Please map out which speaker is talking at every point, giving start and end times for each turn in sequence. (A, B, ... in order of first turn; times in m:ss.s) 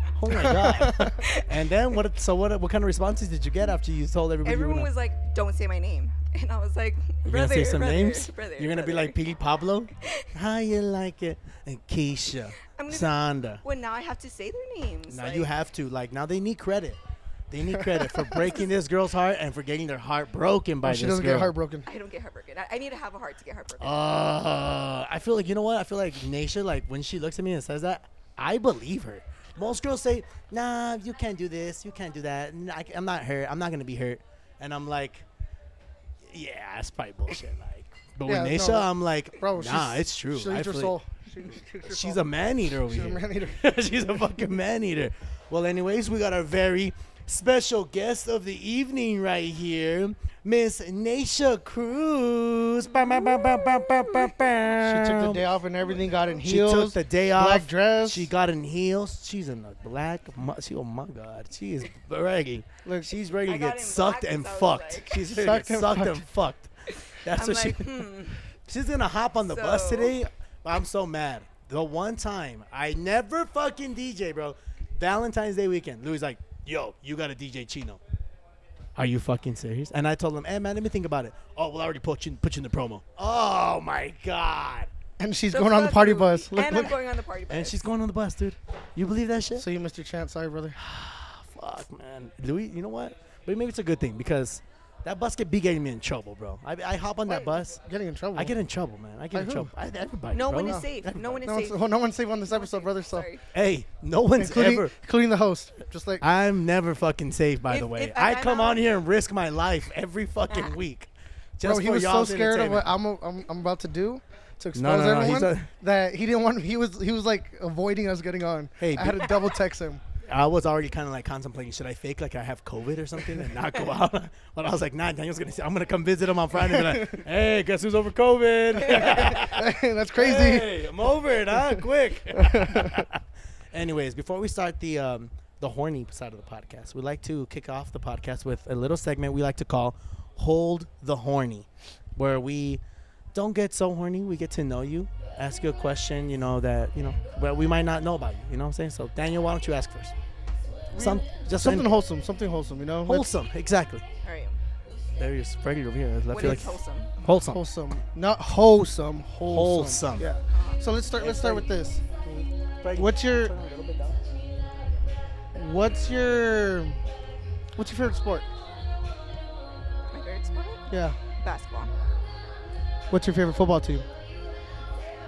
0:00.2-0:04.9 A
0:00.4-0:01.1 B
0:01.0-0:01.5 C
0:04.4-0:09.2 C
0:07.2-0:13.6 A
0:12.6-0:15.5 C
0:15.1-0:17.0 A
0:17.5-0:21.5 A
0:20.8-0:21.8 B
0:21.8-0:24.2 C
0:23.8-0:35.2 A
0:36.2-0:41.0 A
0:38.2-0:42.2 B
0:41.8-0:55.4 A
0:42.8-0:43.6 B
0:53.2-0:54.5 C
0:54.7-0:58.3 B
0:55.9-0:56.3 C
0:56.4-1:06.7 A
1:02.8-1:03.1 B
1:03.4-1:05.2 C
1:05.2-1:06.2 B
1:06.9-1:08.4 C
1:07.2-1:08.1 A
1:08.7-1:18.0 A
1:09.4-1:10.2 C
1:19.0-1:24.9 A
1:25.2-1:27.0 B
1:25.5-1:27.8 C
1:27.5-1:29.6 A
1:29.6-1:30.8 B
1:30.8-1:37.8 A
1:37.2-1:38.6 B
1:38.3-1:41.4 A
1:39.3-1:39.7 B
1:40.3-1:41.8 C
1:41.4-1:43.3 B
1:42.5-1:43.4 C
1:43.5-1:44.9 A
1:44.4-1:46.2 B
1:46.2-1:52.9 A
1:47.7-1:48.8 C
1:51.6-2:00.0 B
1:54.7-1:55.7 A
1:58.8-1:59.3 A
2:00.2-2:22.8 A
2:06.7-2:07.2 B
2:08.8-2:10.8 B
2:12.3-2:13.0 B
2:23.3-2:30.1 A
2:31.0-2:31.9 A
2:31.0-2:33.3 B
2:33.0-2:34.0 A
2:34.2-2:34.6 C
2:35.2-2:37.6 A
2:36.3-2:37.1 C
2:37.4-2:42.2 B
2:39.4-2:40.3 A
2:40.5-2:40.8 C
2:41.1-2:41.7 A
2:42.3-2:44.2 A
2:42.9-2:43.5 B
2:45.6-2:47.0 B
2:47.8-2:48.5 B
2:50.1-2:51.9 C
2:50.9-2:51.2 B
2:53.1-2:54.0 B